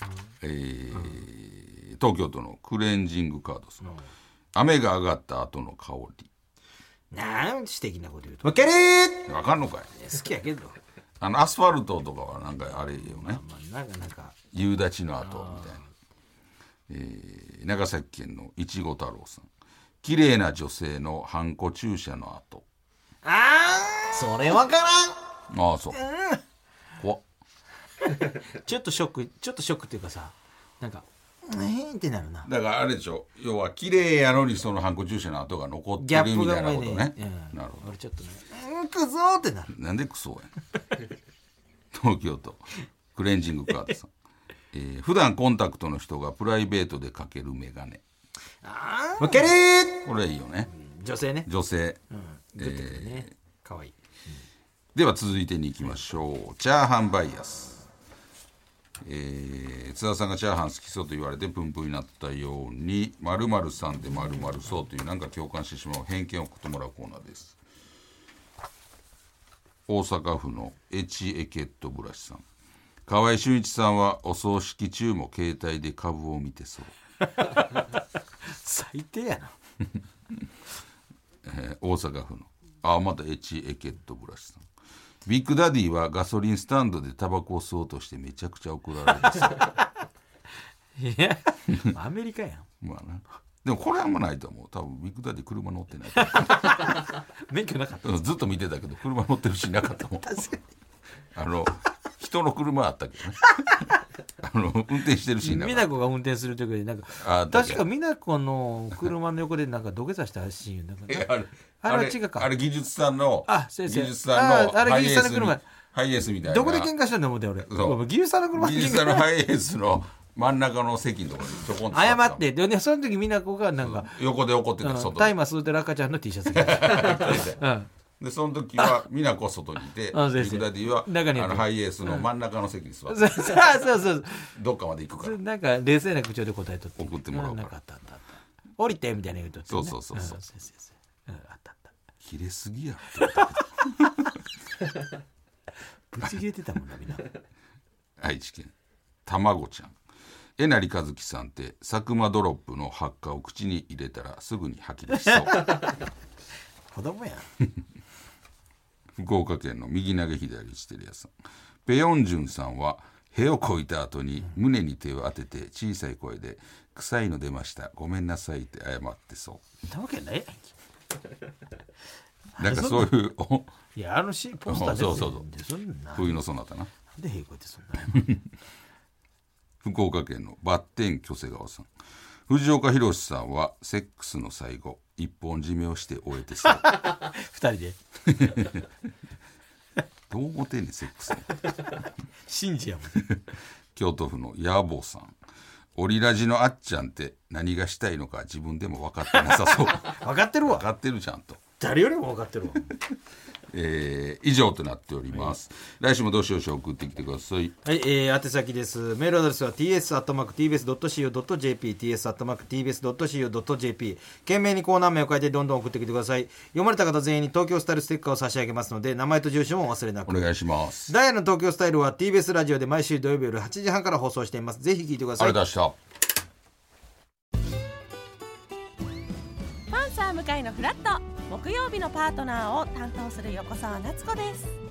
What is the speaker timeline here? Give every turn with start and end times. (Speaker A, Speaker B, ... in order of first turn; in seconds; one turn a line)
Speaker A: 0.4-3.9
Speaker A: 4.5-6.3
Speaker B: 7.1-9.3
Speaker A: 9.2-9.9
Speaker B: 9.9-10.8
Speaker A: 11.2-13.4
Speaker B: 12.9-14.3
Speaker A: 14.5-15.8
Speaker B: 15.2-15.8
Speaker A: 16.9-19.5
Speaker A: 20.0-22.6
Speaker B: 23.2-25.2
Speaker A: 25.5-26.0
Speaker B: 25.9-26.4
Speaker B: 28.5-32.5
Speaker A: 32.4-37.9
Speaker B: 36.0-39.7
Speaker A: 39.7-40.5
Speaker A: 41.9-44.1
Speaker A: 44.7-48.0
Speaker B: 48.6-50.0
Speaker A: 49.2-50.7
Speaker B: 50.7-51.5
Speaker A: 51.4-52.0
Speaker B: 52.1-54.4
Speaker A: 52.6-53.3
Speaker A: 54.9-57.9
Speaker A: 59.0-67.6
Speaker A: 69.9-72.4
Speaker A: 73.1-76.9
Speaker B: 77.3-77.9
Speaker B: 78.4-79.5
Speaker A: 81.4-84.7
Speaker A: 85.2-89.6
Speaker B: 91.0-92.7
Speaker A: 92.8-96.9
Speaker B: 96.2-98.1
Speaker A: 98.0-100.5
Speaker B: 100.2-100.6
Speaker A: 101.3-103.6
Speaker A: 104.4-105.9
Speaker B: 105.4-112.5
Speaker A: 107.2-107.8
Speaker A: 111.1-116.9
Speaker B: 113.5-115.6
Speaker B: 116.4-119.3
Speaker A: 117.6-118.0
Speaker A: 118.5-122.4
Speaker B: 121.9-124.1
Speaker A: 123.8-125.4
Speaker B: 124.8-127.9
Speaker A: 126.5-127.6
Speaker A: 128.2-135.4
Speaker B: 130.1-132.3
Speaker B: 133.1-134.5
Speaker B: 135.2-141.9
Speaker A: 137.0-137.7
Speaker A: 139.7-140.4
Speaker A: 142.2-144.2
Speaker B: 143.2-143.5
Speaker B: 146.1-147.3
Speaker A: 148.2-148.7
Speaker A: 149.2-150.0
Speaker A: 150.6-155.6
Speaker B: 155.4-155.9
Speaker B: 156.9-157.5
Speaker A: 159.2-161.3
Speaker A: 161.8-169.6
Speaker B: 169.9-170.7
Speaker B: 172.6-173.1
Speaker A: 172.6-173.7
Speaker B: 173.9-176.4
Speaker A: 174.7-175.4
Speaker A: 176.1-176.9
Speaker B: 177.1-178.3
Speaker A: 178.1-178.4
Speaker A: 179.8-181.9
Speaker A: 182.5-186.9
Speaker B: 186.6-188.0
Speaker A: 188.3-188.8
Speaker A: 190.3-191.5
Speaker B: 192.5-193.2
Speaker A: 193.9-195.3
Speaker A: 195.9-201.6
Speaker B: 199.9-200.8
Speaker B: 201.8-202.9
Speaker A: 203.7-207.7
Speaker B: 207.8-220.5
Speaker A: 220.2-221.1
Speaker B: 221.1-225.6
Speaker A: 225.4-225.9
Speaker C: 229.9-234.8